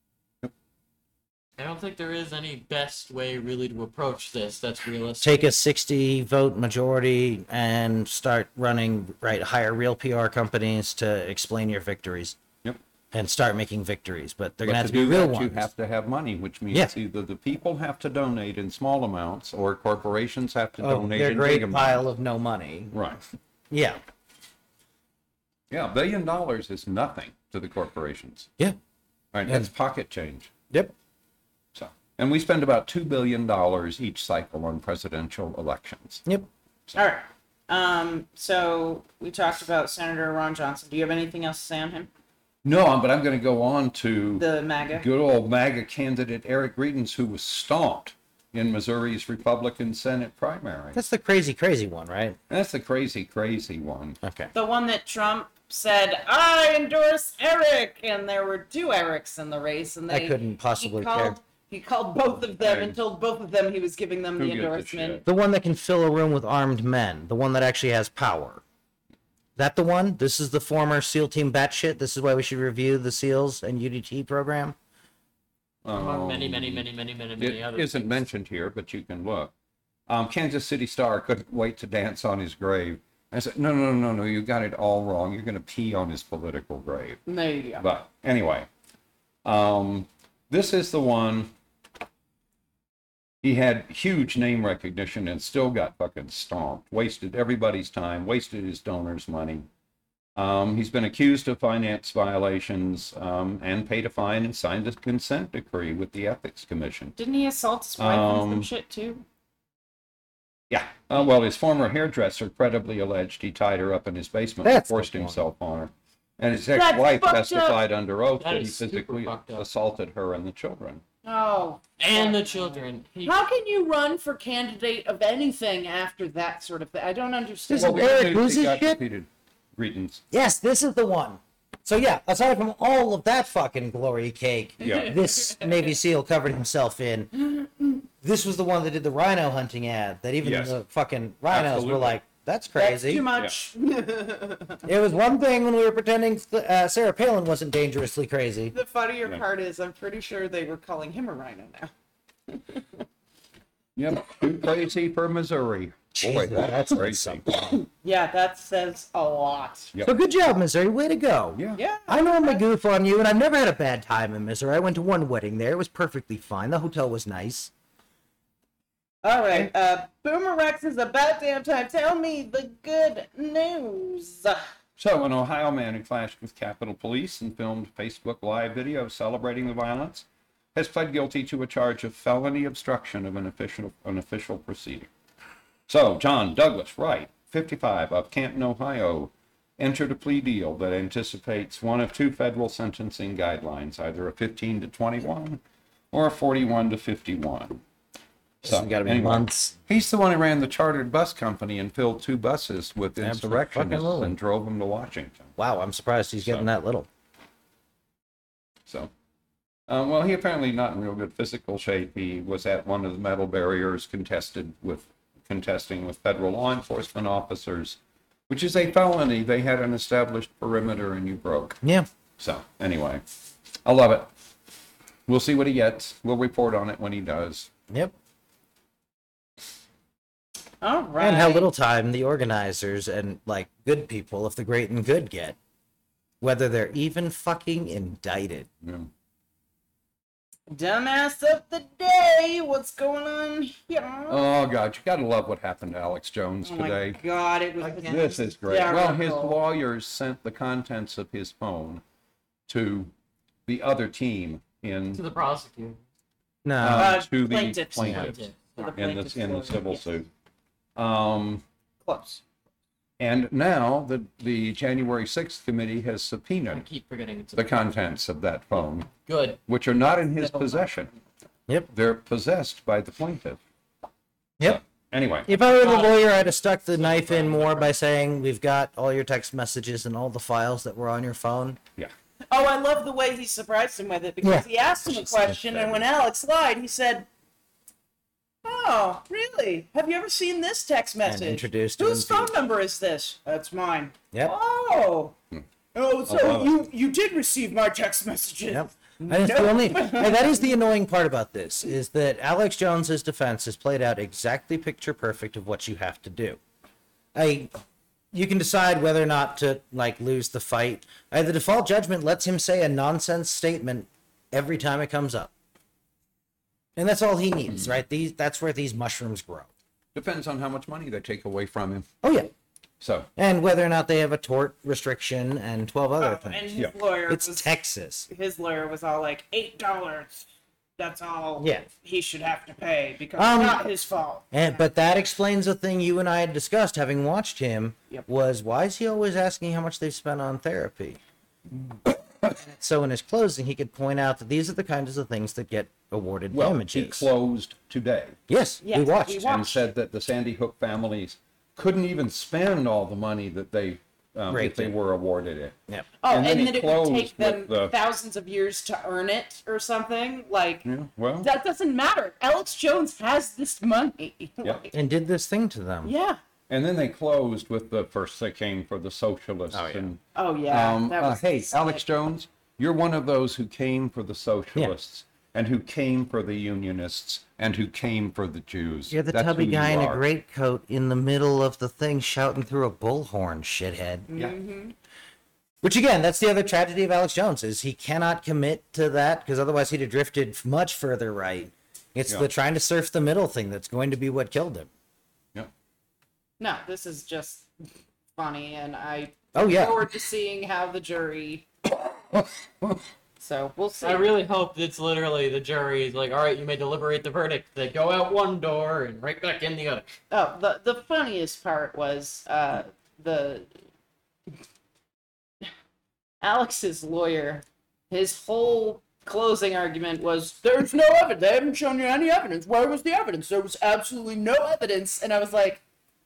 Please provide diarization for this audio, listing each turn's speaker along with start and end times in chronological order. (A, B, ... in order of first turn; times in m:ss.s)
0:01.6-0:05.4 A
0:05.2-0:12.4 B
0:13.1-0:15.7 B
0:14.6-0:22.0 C
0:20.8-0:23.0 B
0:22.9-0:23.2 C
0:23.7-0:24.0 B
0:25.7-0:28.5 C
0:29.3-0:30.5 C
0:31.7-0:36.2 C
0:36.9-0:42.1 D
0:42.6-0:51.0 C
0:44.4-0:45.0 D
0:50.9-0:52.4 B
0:52.5-0:54.2 C
0:54.2-0:54.5 B
0:54.5-1:05.2 D
1:00.1-1:01.4 B
1:02.6-1:03.0 C
1:04.4-1:05.2 C
1:05.2-1:08.6 B
1:09.6-1:14.7 B
1:15.8-1:16.9 C
1:15.9-1:18.2 A
1:17.4-1:19.5 C
1:20.1-1:27.2 C
1:27.2-1:27.8 D
1:27.8-1:28.7 C
1:29.4-1:31.5 C
1:33.4-1:39.6 C
1:40.4-1:47.1 C
1:47.2-1:49.2 D
1:48.0-1:48.7 C
1:50.7-2:01.0 C
1:54.6-1:55.4 B
1:56.7-1:57.8 D
1:58.4-1:59.6 A
2:01.2-2:08.3 D
2:02.0-2:03.4 A
2:07.7-2:09.0 B
2:07.7-2:10.2 C
2:10.3-2:23.3 B
2:14.8-2:15.1 C
2:14.8-2:15.7 D
2:20.4-2:20.8 C
2:21.5-2:22.2 C
2:22.7-2:24.8 D
2:24.8-2:28.7 B
2:28.7-2:31.9 D
2:32.5-2:32.8 D
2:34.0-2:37.4 C
2:36.2-2:37.8 B
2:37.8-2:39.9 D
2:40.0-2:47.7 B
2:41.8-2:42.6 D
2:49.2-2:54.6 D
2:55.0-3:05.1 C
3:05.9-3:15.6 C
3:16.1-3:17.8 C
3:18.6-3:25.5 C
3:18.6-3:19.7 B
3:23.2-3:24.3 B
3:25.6-3:27.1 B
3:29.9-3:38.0 C
3:38.5-3:41.8 C
3:41.8-3:42.1 B
3:42.4-3:43.2 C
3:43.8-3:44.3 C
3:45.3-3:47.7 C
3:50.8-3:51.7 D
3:51.2-3:55.6 B
3:56.4-3:58.7 B
3:58.8-3:59.1 C
4:00.7-4:04.5 D
4:04.3-4:07.2 C
4:06.6-4:09.6 D
4:07.9-4:12.0 C
4:12.7-4:13.1 C
4:13.6-4:15.2 C
4:15.1-4:16.0 A
4:16.6-4:17.2 B
4:16.8-4:18.4 C
4:17.0-4:20.0 D
4:18.0-4:18.9 A
4:18.9-4:20.3 C
4:21.0-4:22.4 C
4:23.2-4:26.8 C
4:26.7-4:27.8 A
4:27.5-4:29.1 C
4:29.1-4:29.6 A
4:29.7-4:31.1 C
4:30.4-4:30.9 A
4:31.9-4:33.6 C
4:34.6-4:35.5 C
4:35.5-4:41.8 B
4:35.7-4:37.9 A
4:42.5-4:47.3 D
4:44.4-4:45.9 B
4:48.6-4:55.3 D
4:51.2-4:52.5 B
4:55.9-5:00.5 D
4:56.3-4:56.7 C
4:58.7-5:06.6 B
5:07.3-5:07.7 B
5:08.3-5:15.5 B
5:17.0-5:19.7 B
5:20.1-5:22.1 C
5:22.2-5:22.5 B
5:23.0-5:23.3 C
5:23.4-5:26.7 B
5:26.2-5:27.7 D
5:27.3-5:28.3 B
5:28.3-5:30.4 D
5:31.0-5:34.8 D
5:31.6-5:31.9 B
5:33.4-5:33.8 B
5:34.5-5:41.2 B
5:42.6-5:47.3 B
5:46.5-5:48.4 C
5:48.5-5:49.6 B
5:48.8-5:49.8 D
5:49.4-5:55.8 C
5:54.5-5:54.9 B
5:56.2-6:00.9 D
5:56.3-5:57.9 C
6:00.8-6:01.5 C
6:01.4-6:04.9 D
6:04.9-6:06.1 B
6:06.0-6:06.4 D
6:06.7-6:20.2 C
6:09.7-6:10.0 B
6:10.3-6:12.0 D
6:19.1-6:24.3 B
6:24.3-6:24.9 D
6:25.8-6:34.9 B
6:36.6-6:37.7 D
6:38.4-6:41.6 D
6:39.5-6:40.0 B
6:42.3-6:43.0 C
6:43.4-6:44.3 D
6:44.0-6:50.1 A
6:50.3-6:53.7 D
6:56.4-7:05.8 D